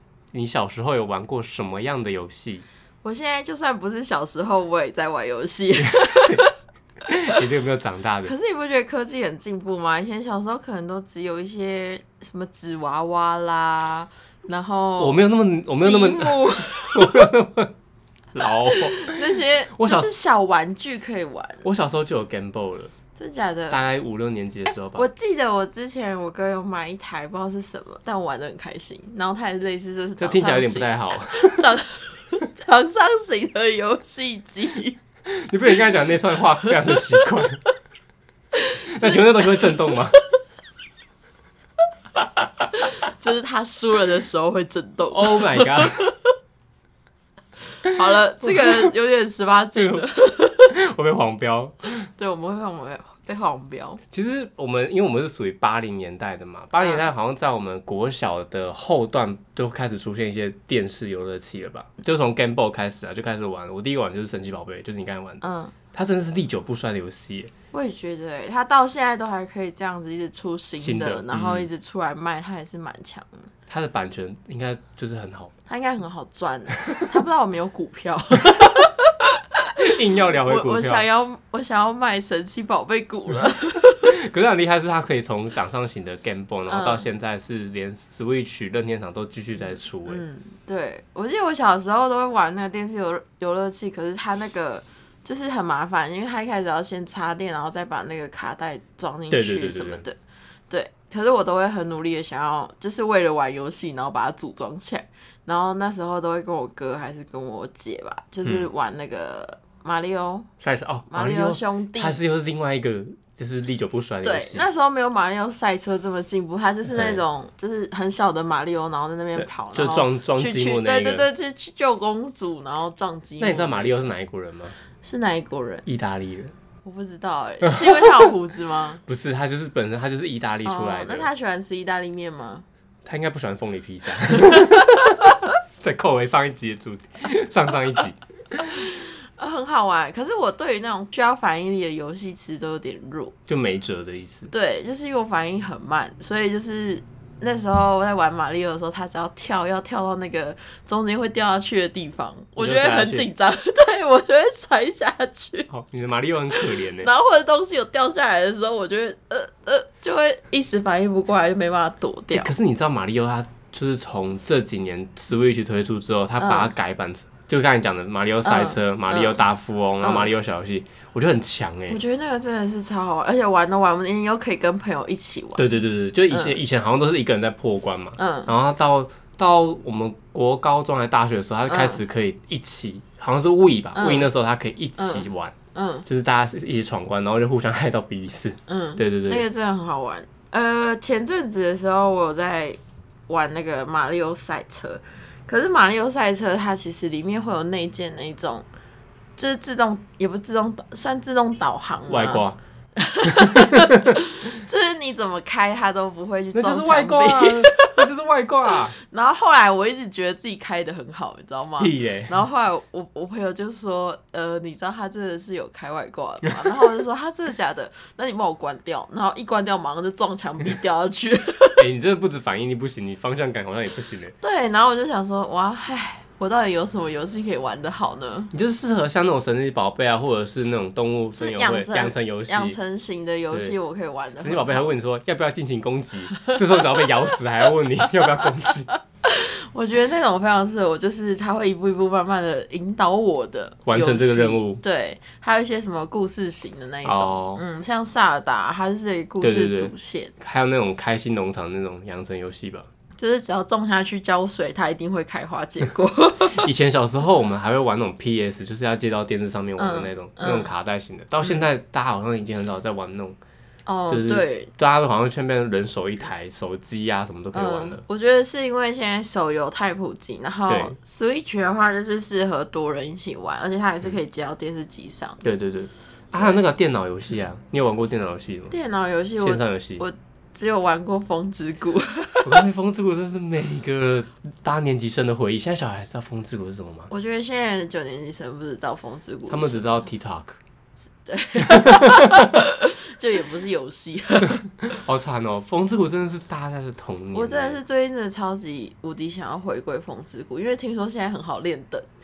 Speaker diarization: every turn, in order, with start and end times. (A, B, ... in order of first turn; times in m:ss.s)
0:00.3-0:02.6 A
0:03.0-0:06.5 B
0:05.8-0:06.4 A
0:07.0-0:07.4 B
0:07.1-0:08.3 A
0:08.2-0:15.2 B
0:15.0-0:17.7 A
0:15.7-0:17.3 B
0:18.3-0:20.1 A
0:18.6-0:21.6 B
0:21.6-0:22.9 A
0:23.1-0:23.8 B
0:23.7-0:25.1 A
0:25.0-0:35.0 B
0:30.2-0:31.8 A
0:35.3-0:37.6 A
0:36.6-0:37.3 B
0:38.5-0:39.9 B
0:38.9-0:40.2 A
0:42.7-0:46.3 B
0:45.1-0:46.1 A
0:47.8-0:50.7 B
0:47.9-0:48.9 A
0:49.7-0:50.0 A
0:50.7-0:52.0 A
0:52.0-0:54.0 B
0:54.1-1:05.4 A
0:56.8-0:57.0 B
1:05.4-1:05.7 B
1:05.9-1:07.5 A
1:07.7-1:13.5 B
1:10.8-1:11.7 A
1:13.7-1:15.5 A
1:15.7-1:24.2 B
1:19.8-1:21.0 A
1:24.0-1:30.2 A
1:26.7-1:27.0 B
1:29.6-1:40.2 B
1:39.3-1:40.0 A
1:40.7-1:50.5 B
1:50.6-1:54.6 A
1:51.1-1:52.2 B
1:54.2-2:03.9 B
1:56.9-1:57.2 A
1:59.3-2:01.3 A
2:03.4-2:04.8 A
2:05.0-2:05.8 B
2:05.8-2:06.5 A
2:06.8-2:09.0 B
2:07.6-2:08.3 A
2:09.0-2:11.3 A
2:10.6-2:12.6 B
2:13.0-2:18.6 A
2:14.3-2:15.4 B
2:18.6-2:23.3 B
2:23.5-2:24.5 A
2:24.5-2:35.7 B
2:32.6-2:33.3 A
2:35.7-2:37.1 A
2:36.5-2:42.5 B
2:42.3-2:52.0 A
2:46.4-2:46.7 B
2:48.4-2:49.4 B
2:50.0-2:50.3 B
2:51.9-2:55.7 B
2:55.6-3:05.5 A
2:56.3-2:56.6 B
2:58.2-2:58.5 B
3:01.7-3:02.0 B
3:03.9-3:04.3 B
3:05.0-3:06.0 B
3:06.0-3:09.4 A
3:08.7-3:18.6 B
3:19.4-3:22.4 B
3:22.1-3:22.6 A
3:23.0-3:28.0 B
3:23.2-3:24.2 A
3:26.5-3:29.0 A
3:29.0-3:41.8 B
3:31.8-3:32.4 A
3:41.8-3:44.3 A
3:44.4-3:48.5 B
3:48.5-3:52.8 A
3:51.4-3:54.8 B
3:54.4-3:58.9 A
3:56.4-3:56.8 B
3:59.2-4:10.3 B
4:03.8-4:04.8 A
4:07.0-4:07.6 A
4:09.4-4:12.9 A
4:13.2-4:16.7 B
4:16.5-4:23.4 A
4:19.8-4:20.7 B
4:23.8-4:24.7 B
4:24.1-4:28.0 A
4:27.5-4:35.4 B
4:30.7-4:31.0 A
4:35.4-4:38.7 A
4:38.7-4:42.6 B
4:39.4-4:40.0 A
4:42.4-4:47.1 A
4:47.1-4:49.8 B
4:49.5-4:50.6 A
4:51.2-4:54.6 B
4:51.7-4:52.5 A
4:54.4-4:57.8 A
4:57.3-5:02.1 B